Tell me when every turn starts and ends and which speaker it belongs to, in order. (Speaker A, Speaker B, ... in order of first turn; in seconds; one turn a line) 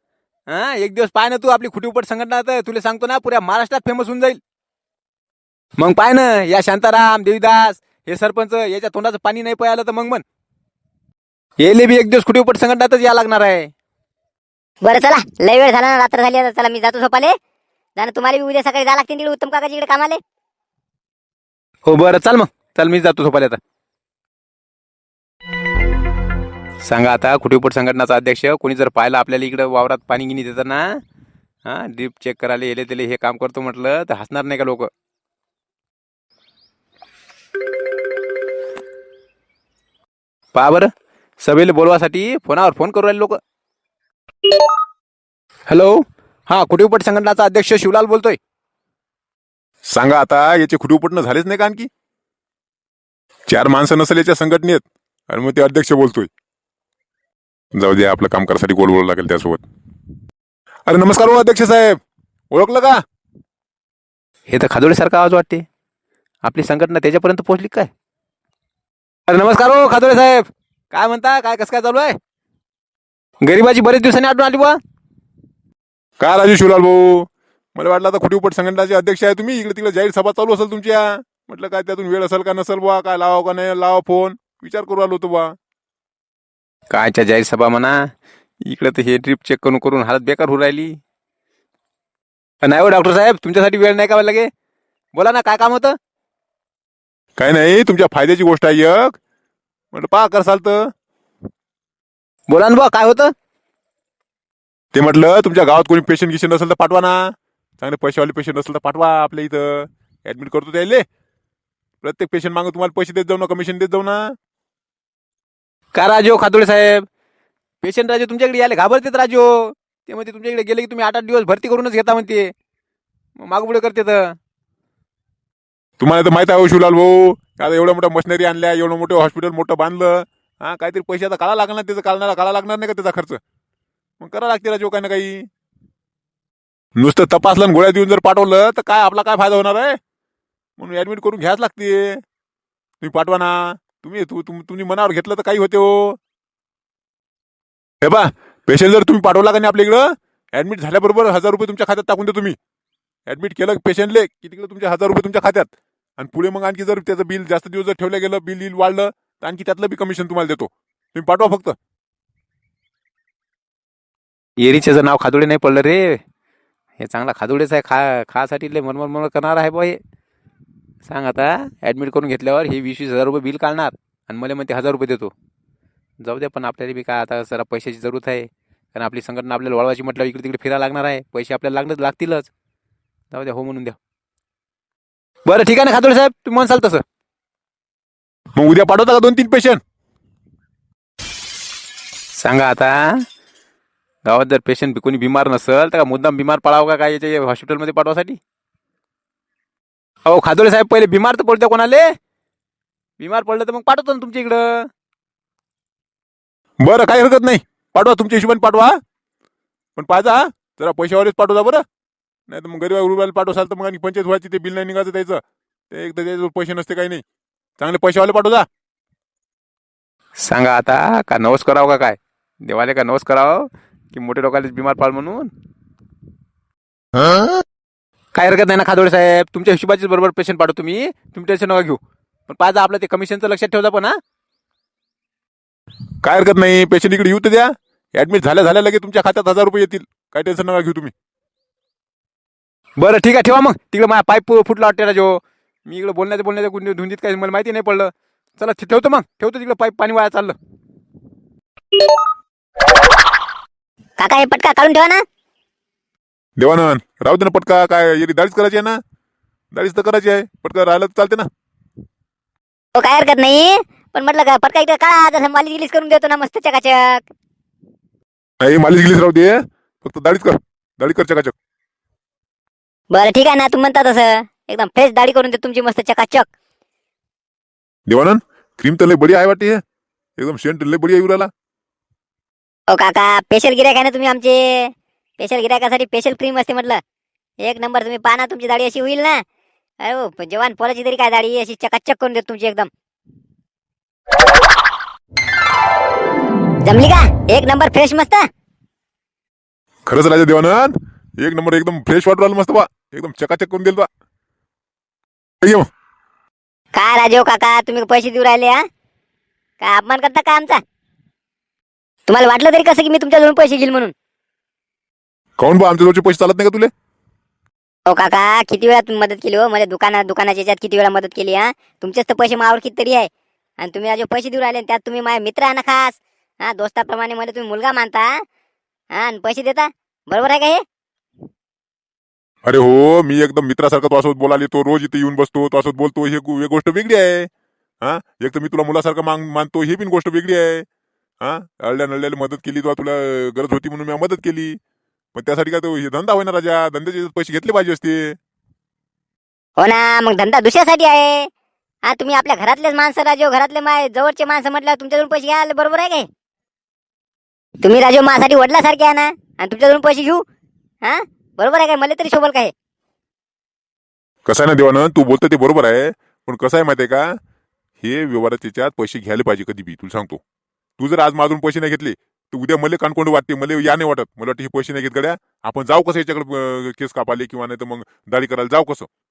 Speaker A: 0.5-4.4
Speaker A: 5.8-10.2
Speaker A: 11.6-13.7
Speaker B: 14.8-17.4
Speaker B: 18.0-20.2
Speaker A: 21.9-23.6
Speaker A: 26.8-30.8
Speaker A: 31.6-34.9
Speaker A: 40.5-40.9
Speaker A: 41.4-43.4
Speaker A: 45.7-48.4
Speaker C: 49.9-51.9
Speaker C: 53.5-56.3
Speaker C: 57.7-59.6
Speaker C: 60.9-62.0
Speaker C: 62.5-63.0
Speaker A: 64.5-65.6
Speaker A: 66.4-67.9
Speaker A: 69.3-72.2
Speaker A: 73.4-74.8
Speaker C: 76.2-85.5
Speaker A: 86.9-88.0
Speaker A: 88.7-91.0
Speaker A: 92.6-94.5
Speaker A: 95.1-96.0
Speaker C: 97.4-99.2
Speaker C: 99.9-100.9
Speaker A: 102.5-103.3
Speaker C: 104.9-111.0
Speaker C: 112.0-114.3
Speaker A: 115.9-117.0
Speaker A: 117.8-122.5
Speaker A: 123.4-124.3
Speaker C: 126.0-133.4
Speaker C: 134.2-135.5
Speaker C: 136.9-140.0
Speaker C: 140.8-142.2
Speaker C: 143.0-146.2
Speaker C: 148.0-152.6
Speaker C: 153.3-161.8
Speaker A: 164.6-166.2
Speaker A: 167.0-170.0
Speaker A: 171.1-175.3
Speaker A: 176.2-182.5
Speaker A: 183.3-184.0
Speaker A: 185.4-187.0
Speaker C: 188.5-189.8
Speaker A: 192.4-193.1
Speaker A: 194.2-198.4
Speaker A: 200.3-202.1
Speaker A: 203.2-204.9
Speaker C: 206.8-209.0
Speaker C: 209.9-211.8
Speaker C: 212.5-217.2
Speaker C: 217.8-218.7
Speaker A: 220.4-225.5
Speaker A: 228.3-232.0
Speaker A: 232.5-234.2
Speaker C: 236.2-241.1
Speaker A: 243.0-250.6
Speaker B: 254.2-255.2
Speaker C: 256.6-259.0
Speaker C: 259.7-261.5
Speaker B: 262.9-267.2
Speaker C: 268.6-271.5
Speaker B: 273.1-276.5
Speaker C: 278.1-279.8
Speaker C: 280.4-281.5
Speaker B: 282.9-287.0
Speaker B: 287.6-289.4
Speaker B: 290.0-292.9
Speaker B: 296.8-298.4
Speaker C: 300.1-304.1
Speaker C: 305.6-305.9
Speaker B: 306.9-308.8
Speaker B: 309.8-310.8
Speaker B: 312.3-314.1
Speaker C: 315.6-316.9
Speaker B: 318.1-323.3
Speaker B: 323.8-328.4
Speaker B: 329.1-330.8
Speaker C: 332.6-337.5
Speaker C: 338.0-340.9
Speaker C: 341.4-344.8
Speaker C: 345.3-348.4
Speaker B: 349.8-351.5
Speaker B: 352.1-356.3
Speaker B: 357.8-360.4
Speaker B: 361.0-362.7
Speaker C: 364.4-367.4
Speaker C: 368.0-370.4
Speaker C: 371.0-379.1